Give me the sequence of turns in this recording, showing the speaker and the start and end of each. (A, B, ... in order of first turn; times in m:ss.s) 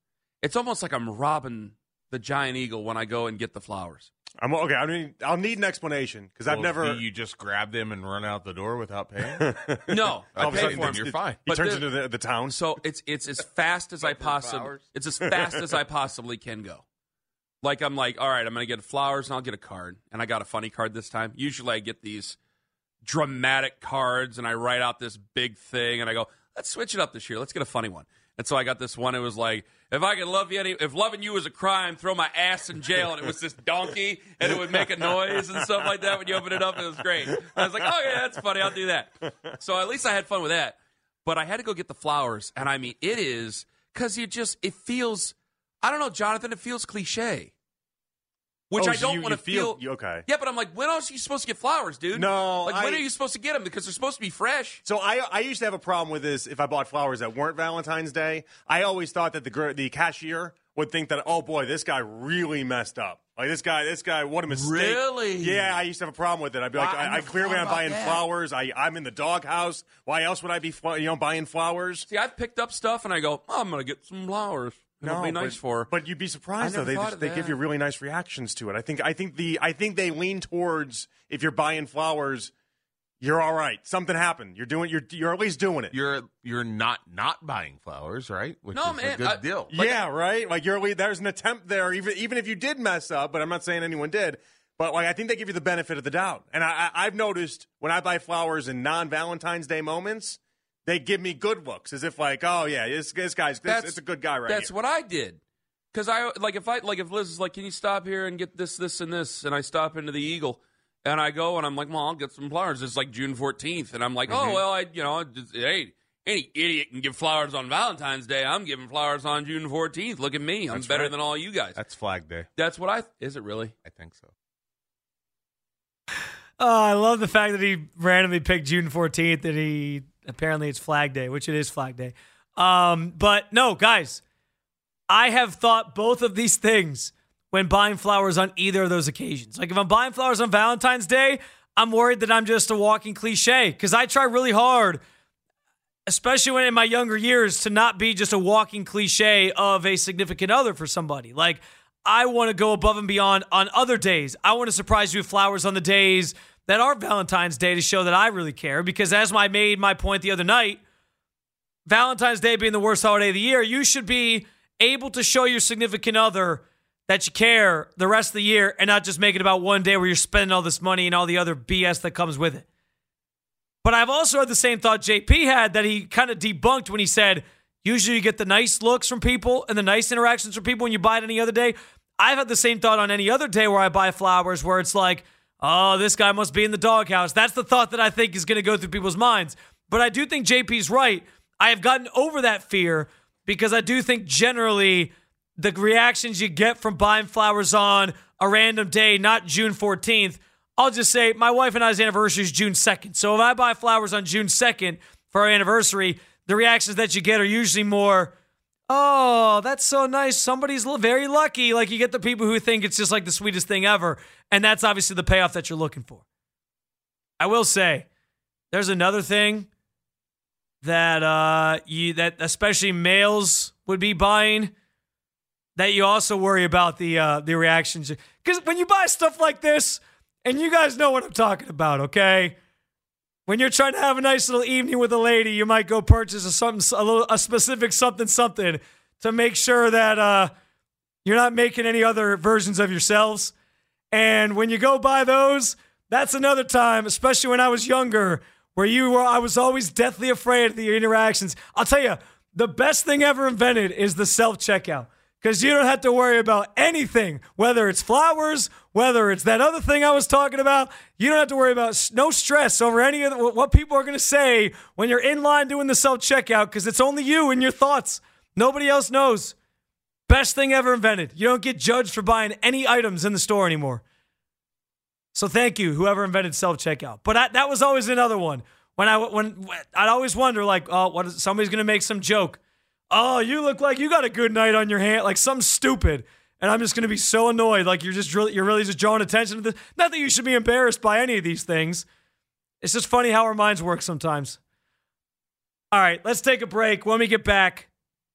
0:00.4-0:04.1 A
0:04.4-0:07.1 B
0:06.5-0:09.7 C
0:09.4-0:12.6 B
0:09.9-0:11.8 A
0:10.3-0:11.4 C
0:12.5-0:16.8 A
0:14.0-0:14.8 C
0:17.6-0:22.4 A
0:23.0-0:47.5 A
0:48.7-0:54.8 A
0:48.8-0:50.2 B
0:52.1-0:53.1 B
0:54.8-1:12.1 B
1:04.5-1:05.7 A
1:06.8-1:08.2 A
1:12.1-1:15.9 A
1:15.0-1:22.5 B
1:16.6-1:17.6 A
1:23.2-1:26.0 B
1:25.9-1:30.0 C
1:28.7-1:29.5 A
1:29.7-1:44.7 B
1:43.7-1:45.4 A
1:45.9-2:01.8 A
1:54.3-1:54.6 C
2:00.7-2:01.2 C
2:01.8-2:02.5 C
2:02.6-2:03.8 A
2:03.8-2:04.3 C
2:06.6-2:14.2 D
2:15.1-2:25.0 D
2:26.1-2:40.8 D
2:41.9-2:52.6 D
2:53.8-3:28.3 D
3:28.9-3:36.2 D
3:37.4-3:38.1 D
3:38.7-3:39.7 D
3:40.8-3:44.7 D
3:45.8-3:52.6 D
3:53.5-4:00.5 D
4:01.2-4:03.5 D
4:04.1-4:29.6 D
4:30.3-4:34.0 D
4:35.3-4:42.6 D
4:43.1-4:52.1 D
4:52.8-4:54.6 D
4:55.9-4:57.9 D